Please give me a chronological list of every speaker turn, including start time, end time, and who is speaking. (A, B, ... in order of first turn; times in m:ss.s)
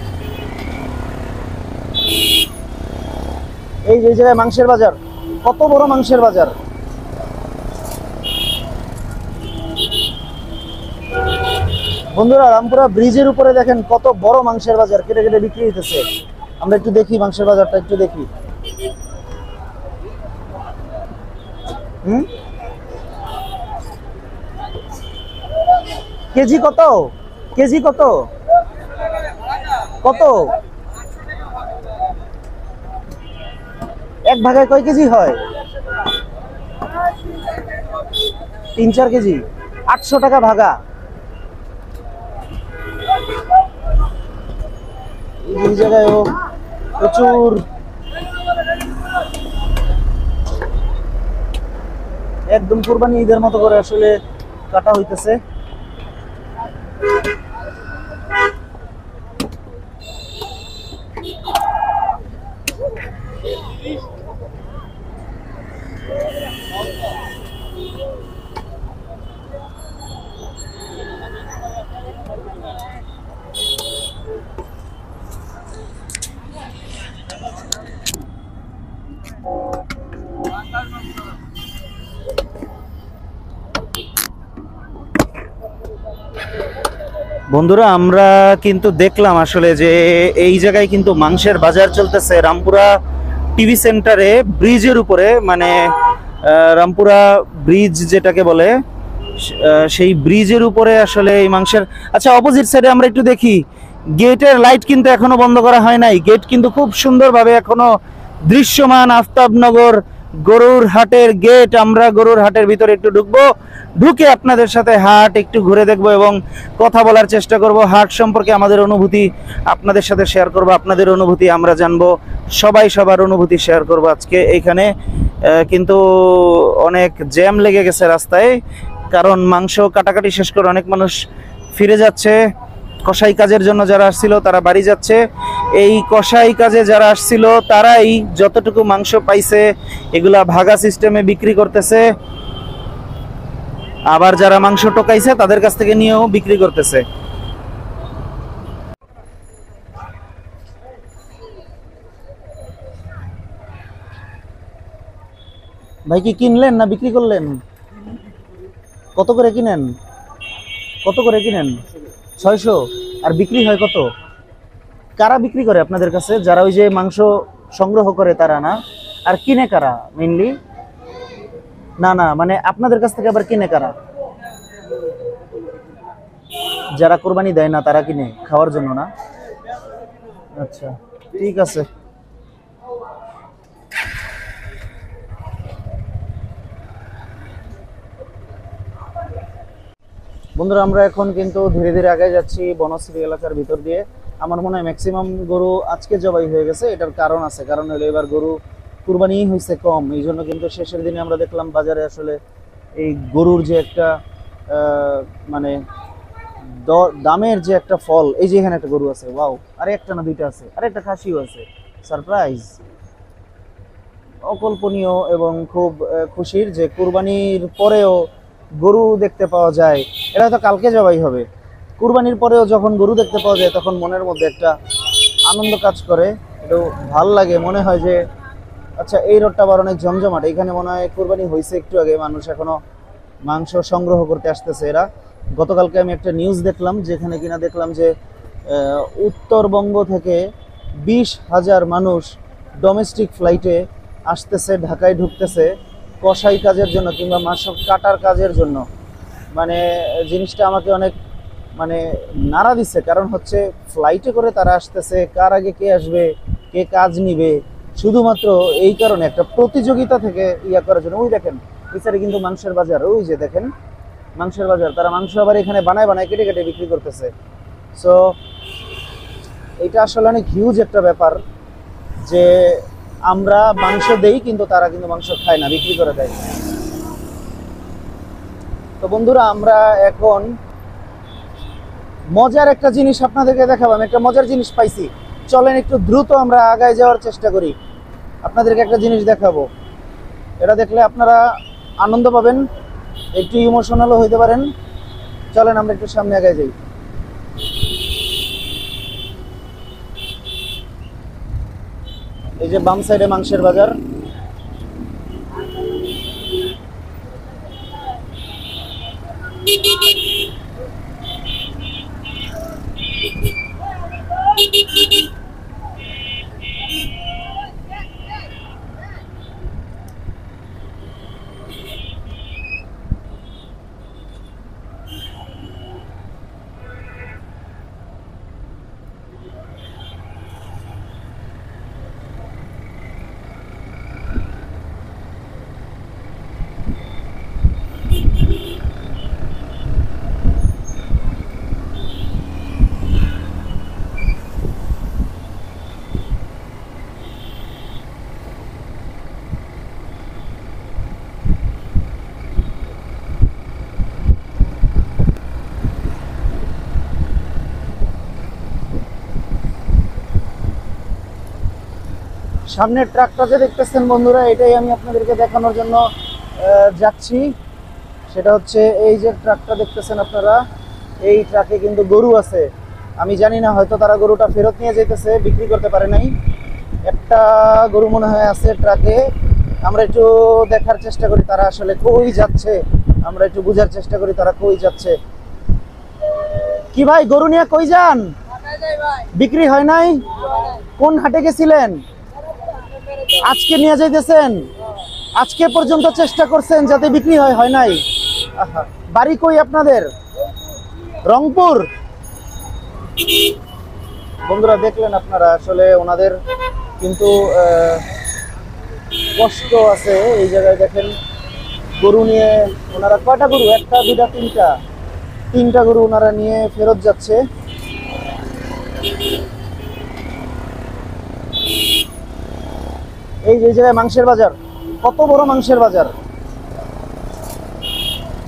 0:03.9-0:06.6 A
0:12.1-0:16.0 A
0:16.6-0:18.3 A
0:22.0-0:22.3 A
0:26.3-0:28.3 A
0:30.0-0:30.6 A
0:34.3-0:35.4 A
0:38.8-0:40.8 A
0:45.4-0:46.3 A
0:47.0-0:47.7 A
0:52.5-0:54.2 A
0:54.7-0:55.4 A
1:27.5-1:33.0 A
1:33.6-1:35.9 A
1:36.4-1:38.8 A
1:39.4-1:47.9 A
1:48.4-2:08.6 A
2:09.1-2:11.2 A
2:11.7-2:12.4 A
2:13.0-2:15.2 A
2:15.7-2:22.1 A
2:24.1-2:27.0 A
2:36.1-2:37.6 A
2:39.2-2:39.9 A
2:41.0-2:41.8 A
2:42.4-2:44.1 A
2:45.2-2:50.6 A
2:52.0-2:54.0 A
2:57.0-2:59.1 A
3:00.6-3:01.9 A
3:10.6-3:22.4 A
3:23.0-3:25.8 A
3:26.7-3:32.8 A
3:34.4-3:38.3 A
3:38.8-3:41.5 A
3:42.0-3:44.8 A
3:45.4-3:48.3 A
3:49.0-3:52.8 A
3:53.4-3:58.2 A
3:58.7-4:00.5 A
4:01.0-4:08.8 A
4:09.5-4:11.2 A
4:11.8-4:23.7 A
4:24.4-4:27.3 A
4:28.0-4:28.3 A
4:29.8-4:31.4 A
4:32.2-4:36.4 A
4:39.0-4:40.5 A
4:42.3-4:47.8 A
4:48.4-4:49.7 A
4:50.6-4:51.4 A
4:52.0-4:52.7 A
4:53.4-4:54.7 A
4:55.5-4:56.7 A
5:02.6-5:04.0 A
6:02.7-6:06.0 A
6:06.6-6:07.5 A
6:08.3-6:10.6 A
6:11.2-6:16.3 A
6:17.1-6:19.3 A
6:19.8-6:25.2 A
6:26.9-6:28.3 A
6:29.2-6:32.0 A
6:33.3-6:34.7 A
6:35.4-6:40.1 A
6:41.2-6:41.9 A
6:44.4-6:46.4 A
6:47.0-6:48.0 A
6:49.4-6:51.1 A
6:52.0-6:54.7 A
6:55.5-6:57.4 A
7:03.4-7:06.1 A